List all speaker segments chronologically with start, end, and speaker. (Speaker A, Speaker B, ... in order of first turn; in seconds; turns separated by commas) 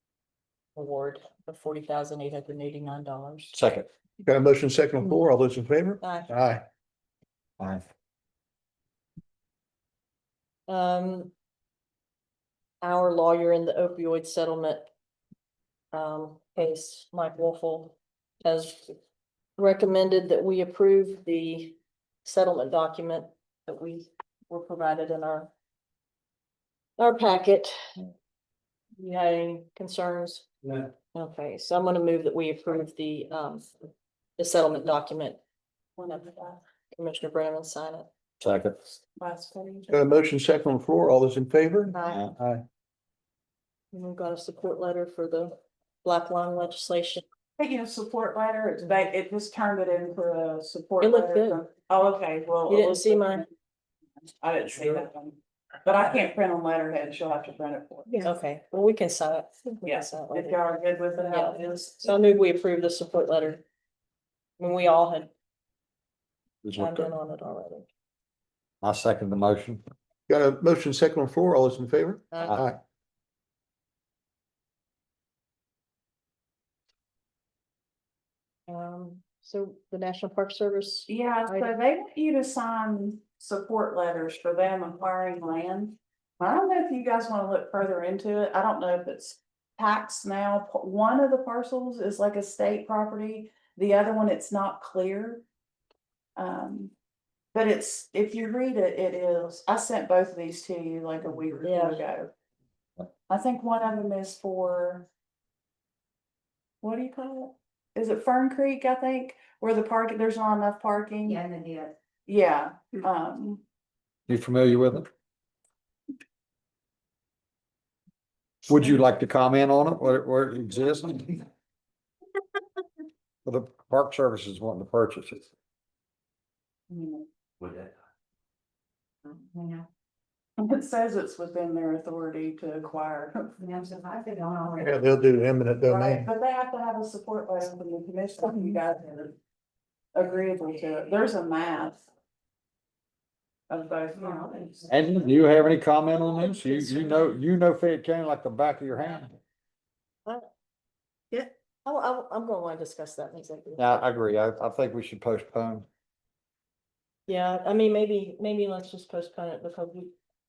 Speaker A: 0.8-3.5, Speaker B: 3.5-3.9, Speaker C: 4.2-6.6, Speaker A: 6.0-6.3, Speaker A: 10.7-11.3, Speaker A: 12.8-14.9, Speaker A: 15.9-19.0, Speaker A: 19.6-25.5, Speaker A: 27.0-28.0, Speaker A: 29.0-30.5, Speaker A: 31.1-33.7, Speaker A: 34.4-35.4, Speaker D: 36.0-36.6, Speaker A: 36.9-38.1, Speaker B: 38.4-38.9, Speaker D: 39.2-39.9, Speaker C: 39.9-42.6, Speaker A: 41.9-42.2, Speaker A: 43.9-47.2, Speaker D: 47.6-53.5, Speaker A: 51.0-51.6, Speaker A: 52.7-53.5, Speaker D: 54.4-58.3, Speaker A: 58.1-60.6, Speaker D: 59.9-62.1, Speaker A: 61.3-63.6, Speaker A: 64.6-65.3, Speaker B: 66.6-67.1, Speaker A: 66.8-67.9, Speaker B: 68.8-69.8, Speaker C: 70.3-72.8, Speaker A: 72.3-72.6, Speaker A: 78.7-81.7, Speaker D: 81.1-95.5, Speaker D: 96.4-96.9, Speaker D: 97.5-102.3, Speaker A: 101.6-102.0, Speaker D: 103.3-105.1, Speaker D: 106.8-111.4, Speaker E: 111.2-112.0, Speaker D: 112.3-113.6, Speaker B: 114.3-115.1, Speaker B: 118.7-121.5, Speaker B: 123.5-125.5, Speaker D: 126.9-127.3, Speaker E: 129.2-129.9, Speaker D: 130.6-133.6, Speaker E: 133.6-135.0, Speaker C: 134.8-136.3, Speaker D: 135.9-139.4, Speaker D: 140.1-142.1, Speaker D: 143.7-144.9, Speaker E: 144.2-144.8, Speaker B: 144.9-149.4, Speaker A: 151.8-153.8, Speaker B: 153.8-155.9, Speaker A: 157.3-160.1